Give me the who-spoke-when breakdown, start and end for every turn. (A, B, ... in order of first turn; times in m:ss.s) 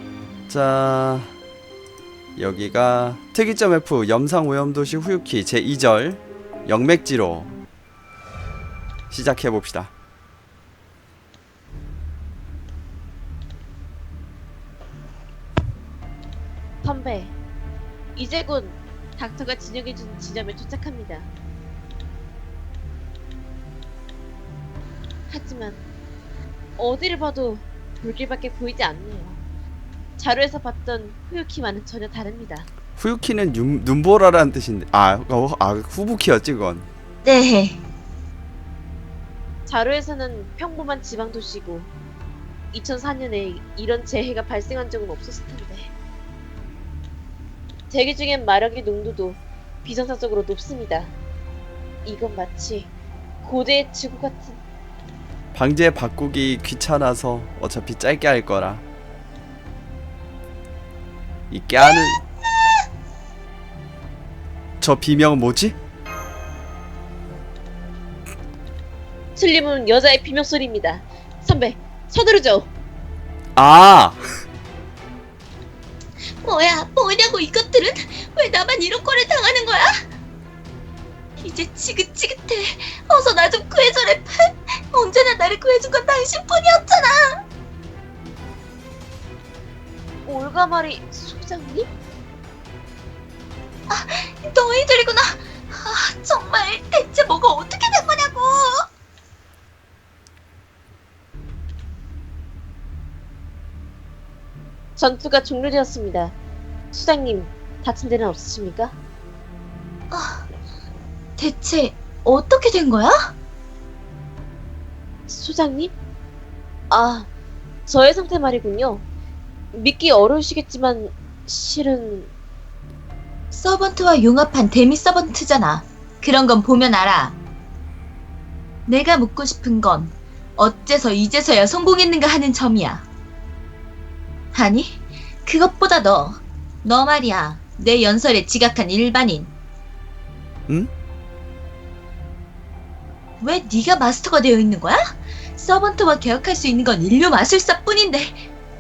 0:00.5-0:01.3 A
0:02.4-0:07.5 A
0:09.1-0:09.9 A
0:16.8-0:17.4 B
0:18.2-0:21.3 B
0:25.3-0:25.8 B
0:26.8-0:29.4 B
0:30.2-0:32.7 B
0:33.0-0:36.9 A
0:37.2-0:37.8 C
0:39.7-0:41.9 B
0:42.7-0:45.9 B
0:47.9-0:51.2 B
0:52.0-0:52.9 B
0:53.4-0:54.6 B
0:55.5-0:58.8 A
1:01.5-1:02.2 A
1:04.8-1:05.8 A
1:09.4-1:12.7 B
1:13.6-1:14.2 A
1:16.4-1:20.0 C
1:21.4-1:27.4 C
1:30.3-1:31.9 B
1:33.9-1:38.9 C
1:45.0-1:46.4 B
1:46.9-1:49.0 B
1:50.1-1:50.4 C
1:51.4-1:53.3 C
1:55.3-1:56.0 B
1:56.9-1:57.3 B
1:57.9-1:59.0 B
1:59.7-2:02.3 B
2:03.5-2:07.4 C
2:08.9-2:13.0 C
2:14.5-2:19.5 C
2:23.4-2:28.4 C